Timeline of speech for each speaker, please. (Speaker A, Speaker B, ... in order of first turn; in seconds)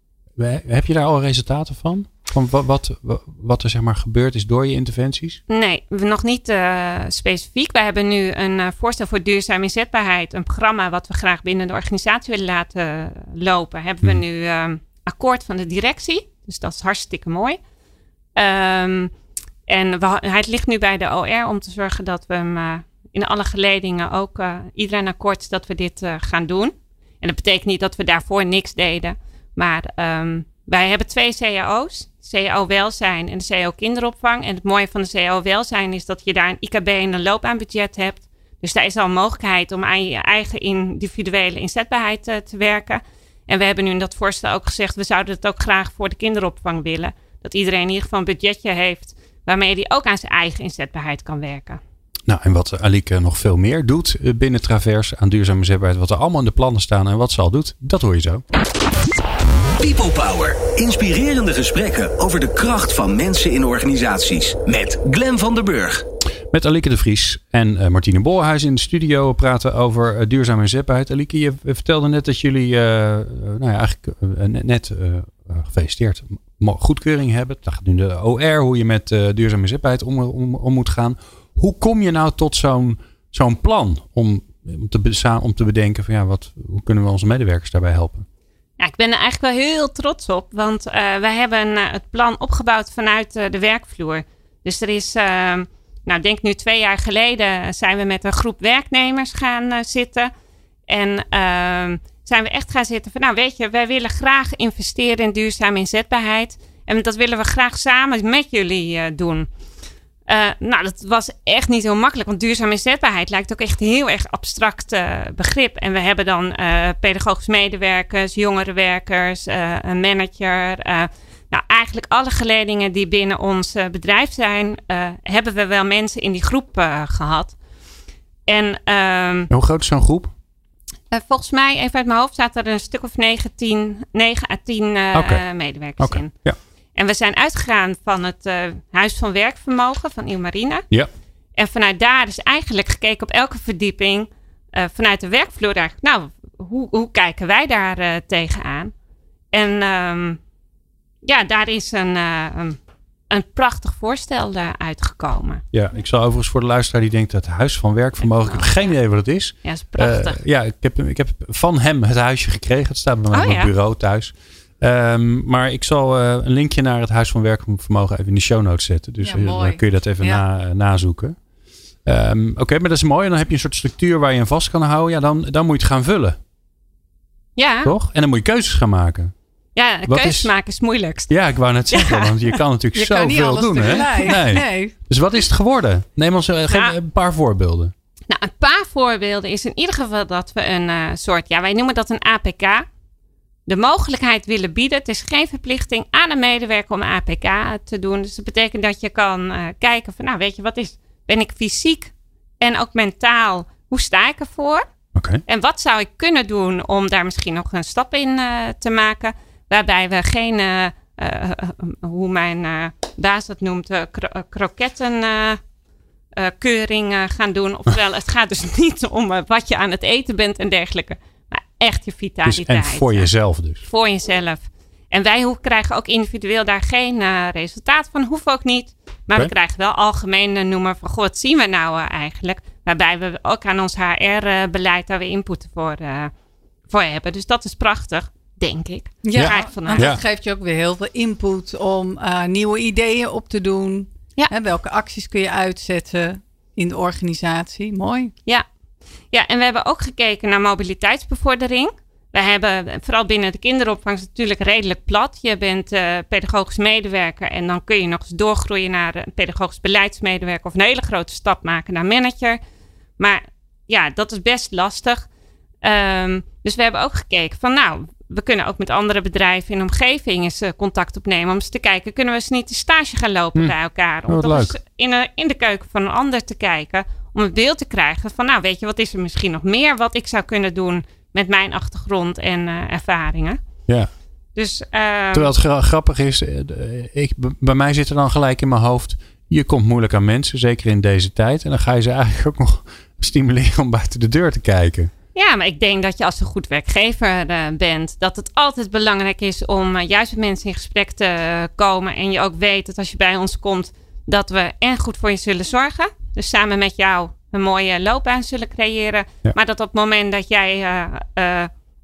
Speaker A: 0.4-5.4, 52.3-58.4, 66.5-88.2, 129.5-130.3, 135.1-135.4, 136.0-136.6, 155.7-171.3, 172.0-176.4, 177.8-179.3, 180.1-180.5, 181.3-187.9, 205.1-205.4, 222.4-223.8, 239.3-240.2, 274.3-274.7, 285.3-295.1
Speaker B: 5.5-17.6, 18.4-19.1, 19.7-51.8, 88.8-100.3, 100.9-109.5, 110.3-127.6, 128.5-129.5, 131.1-136.3, 136.9-140.8, 141.6-148.9, 149.5-150.4, 151.2-152.8, 153.3-155.6, 158.2-158.9, 159.6-160.4, 163.3-163.7, 177.6-177.9, 179.8-182.6, 186.7-186.9, 188.3-192.8, 193.7-204.8, 205.5-215.6, 216.3-223.3, 223.8-236.3, 236.9-240.1, 249.3-262.6, 263.2-265.3, 265.8-283.6, 284.5-285.5, 295.3-311.7
Speaker C: 59.8-66.0
Speaker D: 169.2-170.4, 182.9-184.9, 239.2-248.3